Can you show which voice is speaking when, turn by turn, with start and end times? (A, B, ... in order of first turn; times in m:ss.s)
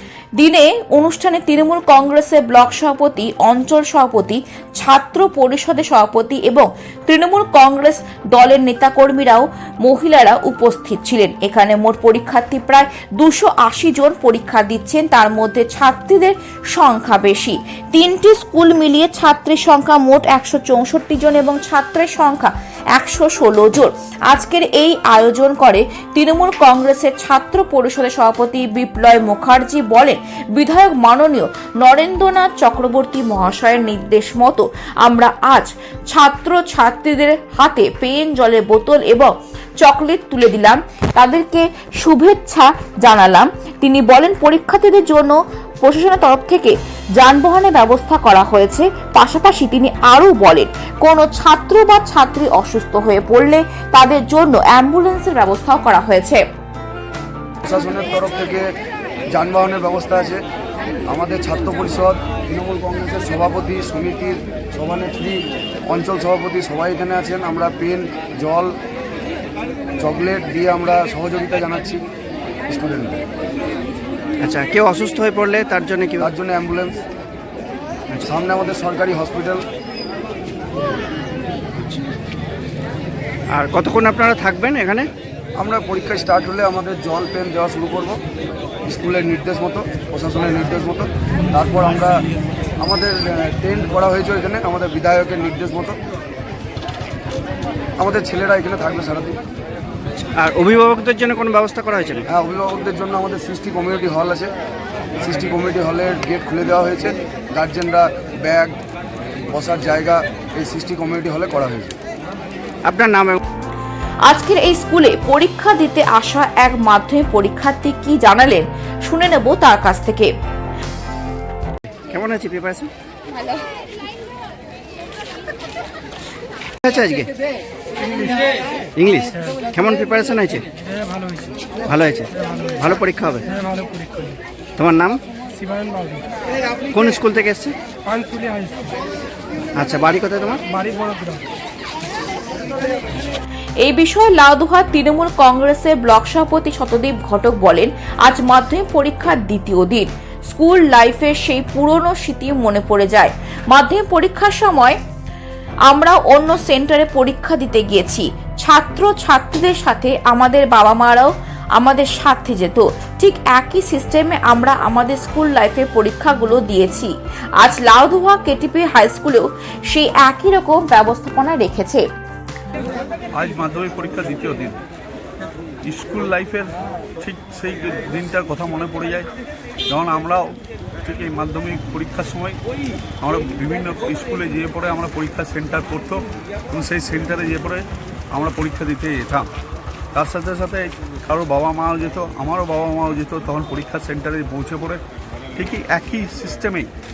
0:00.4-0:56.4 A
0:57.6-0:58.6 B
0:59.3-1:00.4 B
1:01.1-1:08.7 B
1:10.0-1:12.0 B
1:12.7-1:13.2 B
1:14.4-1:16.2 C
1:16.2-1:17.0 B
1:18.2-1:19.6 B
1:23.5-1:25.1 C
1:25.6-1:28.2 B
1:28.8-1:32.2 B
1:32.8-1:36.0 B
1:38.0-1:39.4 B
1:40.4-1:42.2 C
1:42.3-1:44.5 B
1:45.2-1:48.8 B
1:49.5-1:51.9 B
1:52.9-1:53.4 C
1:54.2-2:00.3 A
2:02.1-2:02.9 C
2:06.8-2:07.3 C
2:09.0-2:10.6 C
2:11.9-2:13.5 C
2:13.7-2:14.3 D
2:14.8-2:15.2 C
2:15.6-2:16.2 D
2:16.9-2:17.7 C
2:18.1-2:18.8 D
2:19.7-2:20.6 C
2:20.8-2:21.4 D
2:23.8-2:35.0 A
2:35.9-2:52.0 A
2:53.3-2:54.8 E
2:55.8-2:56.7 E
2:57.2-2:59.3 E
2:59.9-3:02.6 E
3:03.2-3:09.5 E
3:10.1-3:15.0 E
3:15.6-3:16.9 E